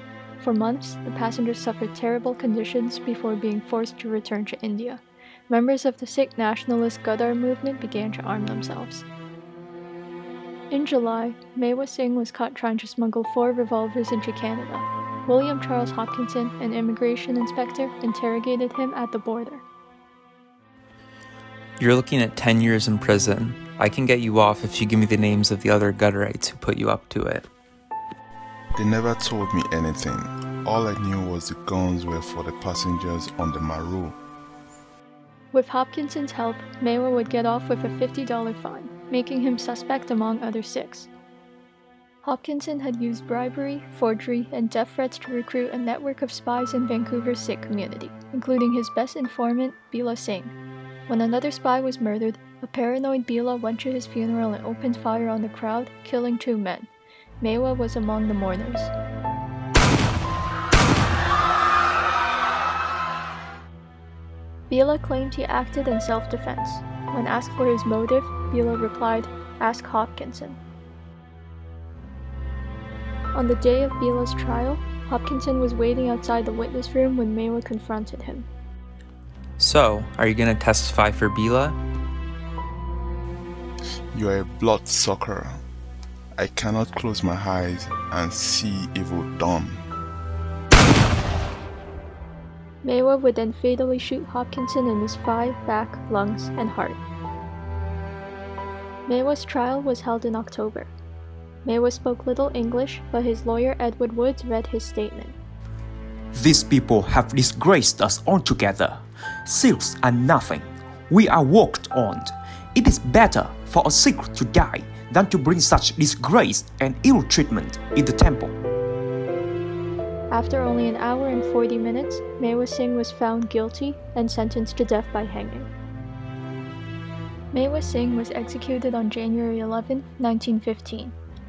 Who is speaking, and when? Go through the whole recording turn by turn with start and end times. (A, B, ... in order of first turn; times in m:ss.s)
0:00.4-0:09.0 A
0:10.7-0:19.6 A
0:21.8-0:27.5 B
0:28.8-0:34.2 C
0:35.5-0:41.1 A
0:42.2-0:50.5 A
0:51.1-0:56.9 A
0:57.4-0:58.9 A
1:04.7-1:10.6 A
1:13.3-1:18.5 A
1:19.6-1:21.8 B
1:24.1-1:25.6 C
1:26.4-1:29.8 C
1:32.8-1:37.0 A
1:39.0-1:40.9 A
1:41.6-1:45.4 A
1:46.3-1:58.5 D
2:00.3-2:05.7 A
2:07.5-2:11.1 A